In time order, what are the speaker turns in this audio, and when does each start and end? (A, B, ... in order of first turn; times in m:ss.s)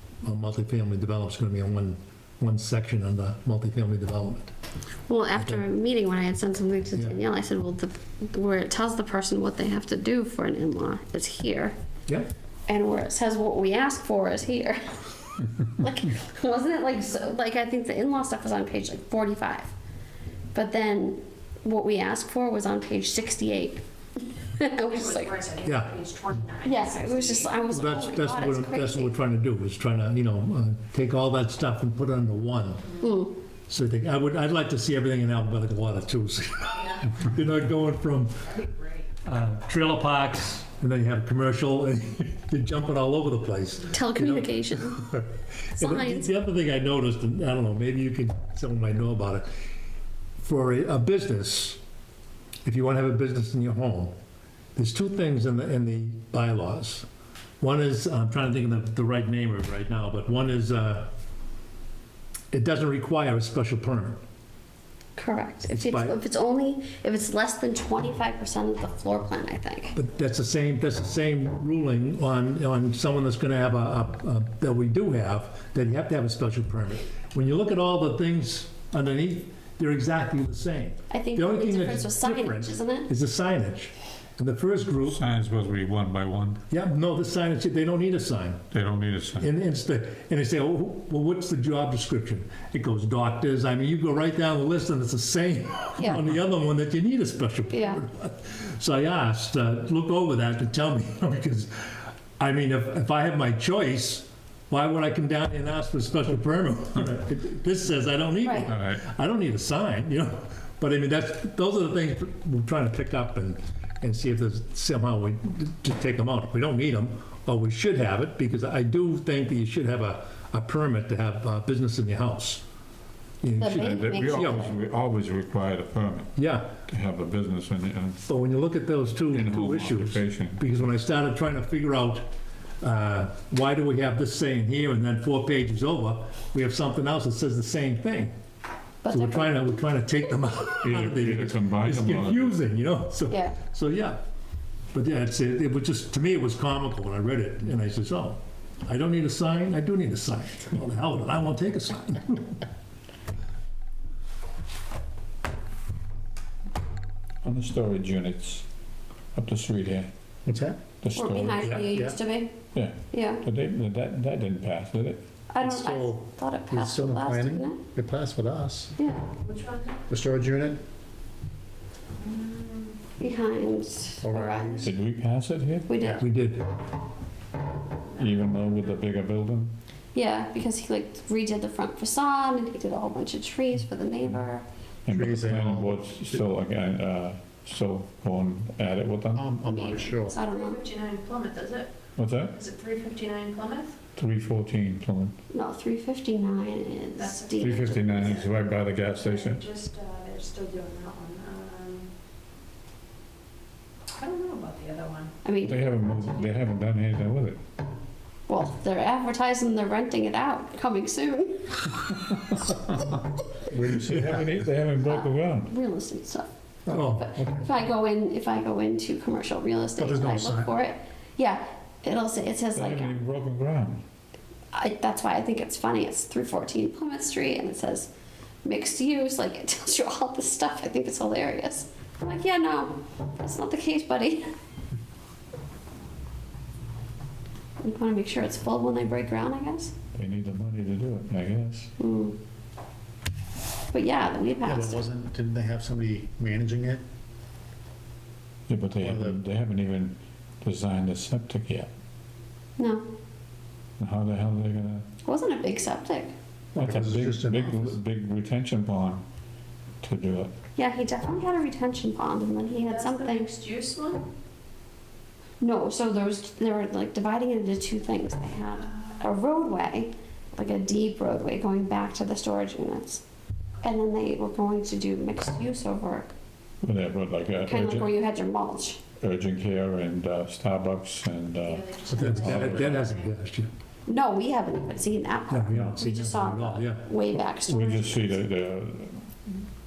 0:00.2-0:04.5 A
0:05.1-0:11.8 B
0:12.7-0:19.7 B
0:20.5-0:23.8 B
0:24.4-0:25.5 B
0:24.9-0:27.6 C
0:25.6-0:26.0 A
0:26.6-0:29.2 B
0:27.7-0:32.9 A
0:33.0-0:33.3 B
0:33.7-0:38.5 A
0:38.6-0:38.8 C
0:39.2-0:49.5 A
0:43.9-0:45.0 B
0:45.8-0:46.3 B
0:50.4-0:51.8 A
0:52.6-0:54.1 A
0:54.8-0:57.1 A
0:57.6-1:01.1 A
1:02.5-1:04.2 A
1:05.2-1:10.0 B
1:05.7-1:06.2 A
1:09.9-1:25.2 A
1:21.1-1:23.1 B
1:25.1-1:26.6 D
1:26.7-1:28.6 A
1:28.7-1:29.5 D
1:29.4-2:02.6 A
1:37.7-1:38.0 B
1:48.4-1:48.7 B
1:48.7-1:49.0 D
2:03.4-2:04.7 A
2:03.6-2:04.7 B
2:03.8-2:06.3 D
2:06.4-2:06.8 A
2:06.9-2:08.2 D
2:08.2-2:18.4 A
2:09.3-2:10.6 D
2:19.0-2:19.6 B
2:19.1-2:24.2 A
2:20.8-2:22.6 D
2:23.3-2:23.6 B
2:24.9-2:32.6 A
2:37.4-2:38.6 D
2:39.3-2:40.1 D
2:40.4-2:40.8 E
2:41.0-2:41.9 D
2:41.1-2:42.6 B
2:41.6-2:41.8 A
2:41.9-2:42.2 E
2:42.7-2:45.2 D
2:43.1-2:43.4 B
2:45.5-2:47.8 B
2:45.6-2:48.9 E
2:49.0-2:49.3 B
2:49.4-2:50.0 C
2:50.1-2:50.8 E
2:52.2-2:53.1 C
2:53.2-2:54.9 B
2:54.2-2:54.9 E
2:54.8-2:56.0 D
2:55.9-2:56.3 B
2:56.0-2:56.6 A
2:58.2-2:59.8 D
3:00.1-3:04.6 B
3:05.0-3:09.5 D
3:05.1-3:06.4 E
3:09.3-3:10.4 E
3:09.6-3:10.8 B
3:10.1-3:11.9 C
3:12.2-3:12.6 D
3:12.5-3:13.9 C
3:14.2-3:15.4 D
3:15.5-3:18.4 B
3:17.2-3:18.5 C
3:17.6-3:19.6 D
3:19.1-3:22.1 C
3:24.2-3:25.3 C
3:25.4-3:25.8 B
3:25.6-3:27.6 D
3:28.5-3:31.9 B
3:33.7-3:34.5 E
3:33.8-3:35.7 D
3:35.0-3:36.5 B
3:36.9-3:37.5 A
3:36.9-3:37.6 E
3:37.0-3:43.2 B
3:40.1-3:40.6 E
3:40.2-3:40.6 A
3:42.7-3:44.0 D
3:44.7-3:48.1 B
3:48.6-3:54.5 B
3:57.8-3:59.9 B
4:00.1-4:01.9 D
4:02.0-4:02.4 B
4:03.9-4:05.1 B
4:04.6-4:07.0 E
4:08.7-4:11.9 D
4:09.0-4:09.4 E
4:12.8-4:13.1 B
4:14.0-4:15.0 D
4:15.2-4:16.3 B
4:16.8-4:19.2 D
4:16.8-4:17.9 E
4:20.0-4:20.5 D
4:20.8-4:23.5 B
4:22.8-4:24.3 C
4:25.6-4:33.2 B
4:33.8-4:36.3 B
4:36.8-4:38.1 D
4:37.7-4:39.0 B
4:39.2-4:43.0 D
4:41.6-4:43.4 C
4:42.1-4:43.7 A
4:44.1-4:48.4 B
4:45.5-4:47.0 A
4:45.7-4:46.2 D
4:47.6-4:49.5 D